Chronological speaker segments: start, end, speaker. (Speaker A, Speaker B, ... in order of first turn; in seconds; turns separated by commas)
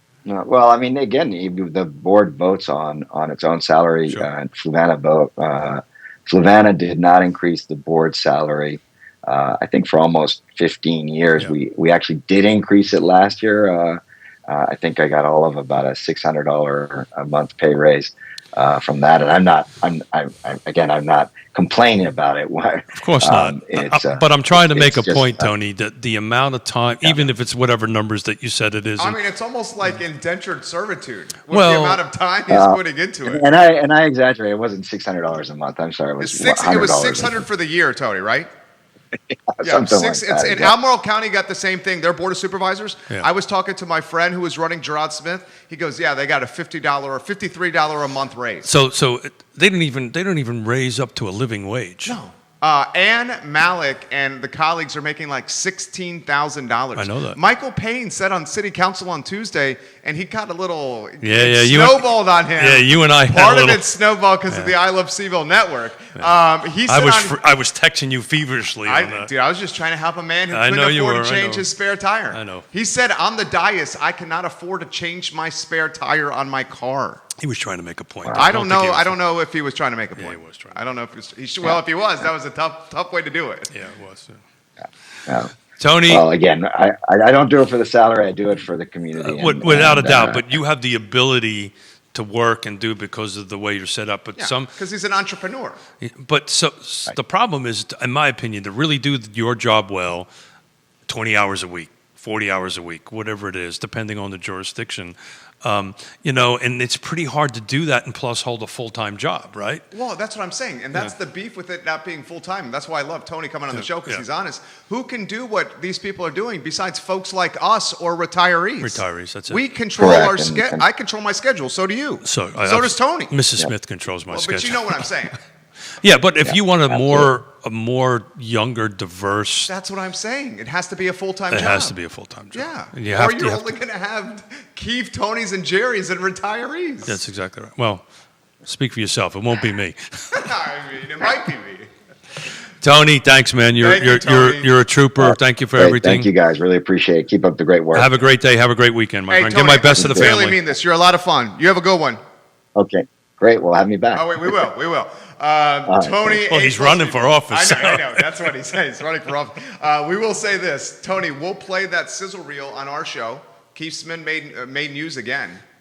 Speaker A: 0.3-25.5, Speaker B: 22.9-29.2, Speaker A: 27.0-27.3, Speaker C: 29.0-33.4, Speaker B: 31.5-32.0, Speaker A: 32.5-37.4, Speaker C: 36.2-38.5, Speaker A: 39.3-40.7, Speaker C: 39.6-48.7, Speaker B: 48.6-52.1, Speaker C: 52.0-67.4, Speaker B: 56.9-57.4, Speaker B: 61.2-63.9, Speaker B: 64.5-64.8, Speaker B: 66.9-69.3, Speaker C: 68.8-77.2, Speaker B: 70.5-71.7, Speaker B: 72.3-72.7, Speaker B: 77.4-79.2, Speaker C: 78.3-83.7, Speaker B: 80.2-80.8, Speaker B: 83.7-84.4, Speaker A: 85.3-85.5, Speaker B: 85.8-86.2, Speaker A: 86.1-90.6, Speaker B: 89.2-94.7, Speaker C: 94.4-95.8, Speaker B: 96.0-100.3, Speaker B: 101.1-109.9, Speaker C: 109.9-123.3, Speaker B: 113.7-114.2, Speaker B: 118.8-119.6, Speaker A: 120.0-120.8, Speaker B: 122.2-125.0, Speaker C: 124.3-125.4, Speaker B: 126.0-129.7, Speaker A: 126.4-127.3, Speaker C: 129.7-131.9, Speaker B: 131.5-133.7, Speaker C: 132.5-137.2, Speaker B: 137.0-138.0, Speaker B: 138.6-140.4, Speaker C: 140.3-141.9, Speaker B: 142.8-146.3, Speaker C: 143.8-144.8, Speaker A: 145.2-148.1, Speaker B: 147.9-150.6, Speaker C: 149.3-152.2, Speaker A: 149.9-150.4, Speaker A: 152.8-154.6, Speaker C: 154.2-165.6, Speaker A: 155.9-156.3, Speaker B: 156.4-158.3